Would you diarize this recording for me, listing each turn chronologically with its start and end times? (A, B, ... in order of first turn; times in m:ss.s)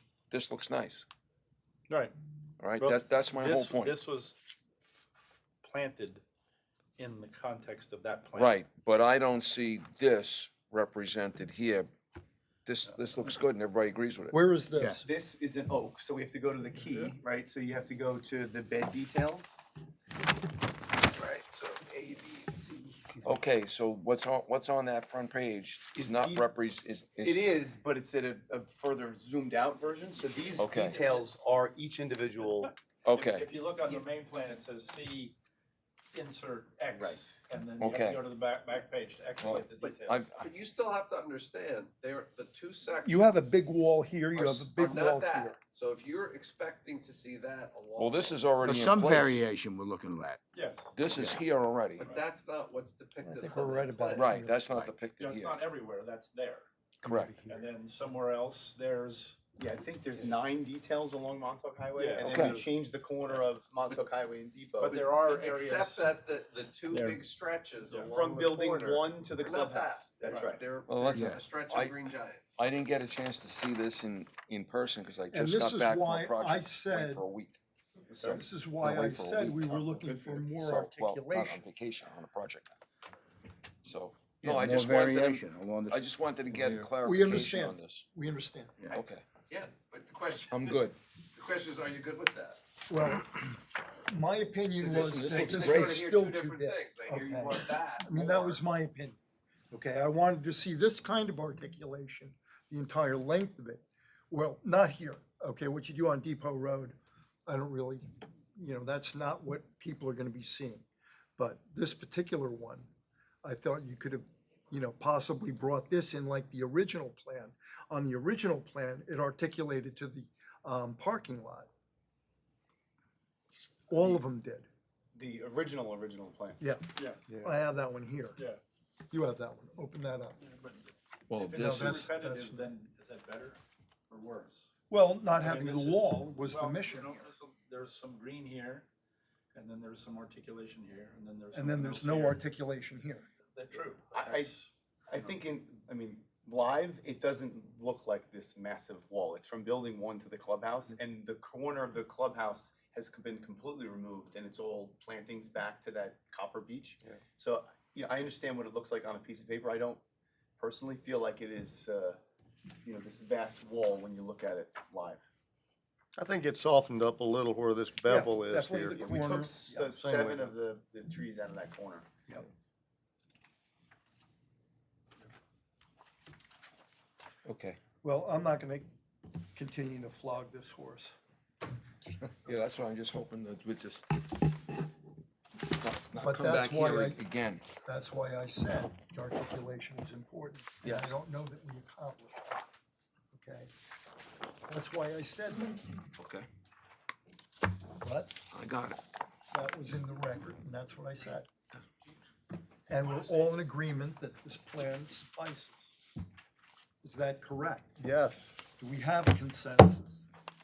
0:00.3-0:01.0 A
0:01.9-0:02.1 B
0:02.6-0:03.9 A
0:02.8-0:04.4 B
0:05.6-0:06.2 B
0:07.0-0:08.6 B
0:08.3-0:11.9 A
0:12.6-0:14.4 A
0:14.3-0:15.1 C
0:15.0-0:19.6 D
0:21.0-0:23.3 D
0:23.2-0:27.4 A
0:25.9-0:26.5 D
0:27.2-0:32.7 D
0:30.6-0:31.0 A
0:33.0-0:33.5 A
0:33.1-0:35.3 B
0:36.1-0:40.3 B
0:36.9-0:37.4 D
0:37.8-0:38.2 A
0:39.4-0:40.4 A
0:39.8-0:43.5 E
0:43.0-0:45.6 C
0:44.3-0:48.8 E
0:48.0-0:49.4 A
0:48.6-0:50.4 F
0:50.5-0:50.9 B
0:50.9-0:52.1 A
0:51.1-0:51.4 F
0:52.0-0:52.3 B
0:52.0-0:54.3 E
0:53.2-0:55.0 C
0:54.1-0:55.6 A
0:55.2-0:56.7 B
0:57.0-0:57.6 C
0:57.0-0:57.4 A
0:57.4-0:59.4 B
0:59.6-1:05.1 D
1:01.9-1:02.6 B
1:02.2-1:02.6 A
1:04.8-1:06.1 B
1:05.0-1:12.6 E
1:06.9-1:07.2 B
1:07.9-1:08.1 B
1:08.1-1:10.7 D
1:10.9-1:12.0 A
1:11.1-1:11.4 F
1:12.6-1:17.6 A
1:15.3-1:17.2 C
1:18.1-1:18.4 D
1:18.2-1:21.6 C
1:18.2-1:22.7 A
1:20.0-1:20.4 D
1:23.8-1:28.0 A
1:24.4-1:26.9 F
1:27.0-1:28.8 C
1:28.9-1:29.2 A
1:29.5-1:30.8 E
1:30.5-1:30.9 A
1:31.3-1:32.6 E
1:32.9-1:33.5 C
1:34.1-1:39.2 C
1:34.8-1:38.6 E
1:35.1-1:36.0 A
1:39.7-1:50.8 C
1:51.4-1:52.9 C
1:53.4-2:01.7 C
2:03.9-2:04.7 C
2:03.9-2:04.2 D
2:05.1-2:06.6 D
2:06.6-2:08.4 C
2:07.0-2:07.3 B
2:07.3-2:07.5 G
2:09.1-2:10.4 C
2:10.4-2:14.7 B
2:11.3-2:12.0 A
2:11.5-2:12.7 C
2:14.9-2:17.3 C
2:15.4-2:18.8 B
2:19.5-2:22.4 B
2:21.5-2:23.3 C
2:23.5-2:24.7 B
2:24.1-2:24.5 D
2:25.1-2:40.0 D
2:40.6-2:42.2 D
2:42.8-2:45.2 D
2:46.2-2:49.1 G
2:48.1-2:49.9 C
2:48.9-2:52.1 D
2:49.9-2:50.5 G
2:57.4-2:57.8 A
2:58.0-2:58.9 C
2:59.5-3:01.1 C
3:02.4-3:04.4 A
3:05.6-3:07.6 A
3:06.2-3:07.2 C
3:07.8-3:12.6 C
3:10.8-3:11.2 A
3:13.3-3:13.7 C
3:14.7-3:15.8 C
3:16.2-3:16.4 A
3:18.0-3:18.4 C
3:18.5-3:19.0 A
3:19.5-3:21.5 C
3:22.9-3:25.9 C
3:27.0-3:28.0 C
3:28.0-3:28.4 G
3:28.7-3:30.3 C